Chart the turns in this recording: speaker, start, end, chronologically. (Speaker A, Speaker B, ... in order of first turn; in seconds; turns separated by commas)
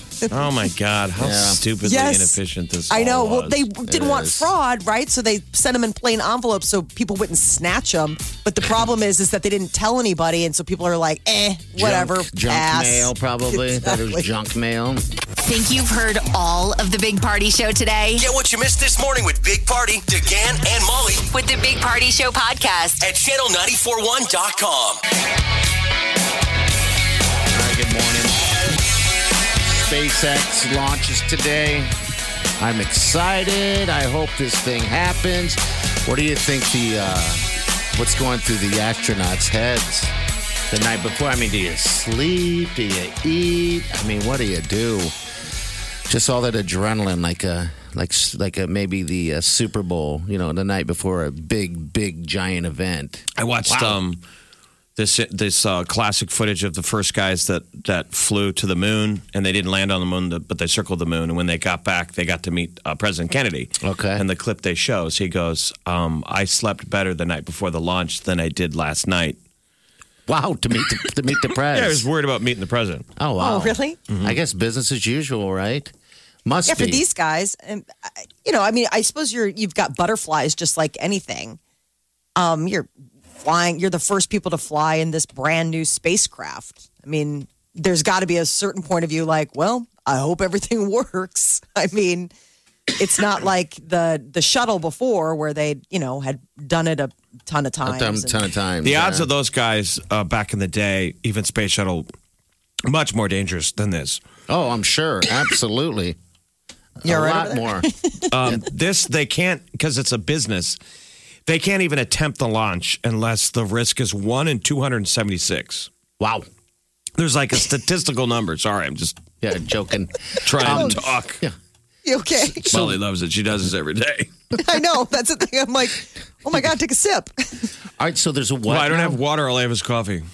Speaker A: 0.3-3.7, Speaker B: 1.2-1.6, Speaker C: 1.8-2.4, Speaker C: 2.9-14.2, Speaker B: 3.9-4.5, Speaker B: 11.8-15.0, Speaker D: 15.4-18.3, Speaker E: 18.1-21.3, Speaker D: 21.3-23.0, Speaker E: 23.0-25.0, Speaker B: 27.5-28.5, Speaker B: 29.6-31.9, Speaker B: 32.6-40.1, Speaker B: 40.7-45.1, Speaker B: 46.1-54.0, Speaker A: 53.4-54.2, Speaker A: 55.0-69.4, Speaker B: 63.8-64.2, Speaker B: 70.3-72.0, Speaker A: 71.5-73.1, Speaker B: 73.2-75.9, Speaker C: 73.4-74.0, Speaker A: 74.1-74.3, Speaker B: 76.5-77.0, Speaker C: 76.7-81.6, Speaker C: 82.3-92.3, Speaker C: 93.0-98.4, Speaker B: 97.8-99.3, Speaker A: 98.8-102.1, Speaker A: 102.8-104.2, Speaker B: 104.5-106.2, Speaker B: 107.0-107.9, Speaker C: 107.0-108.2, Speaker A: 108.3-110.8, Speaker A: 111.5-115.9, Speaker B: 116.2-116.5, Speaker A: 117.2-119.2, Speaker B: 119.4-121.5, Speaker A: 120.4-121.4, Speaker C: 122.0-122.7, Speaker A: 122.5-124.3, Speaker B: 122.6-123.0, Speaker C: 124.6-127.7, Speaker B: 128.0-129.2, Speaker A: 128.7-130.2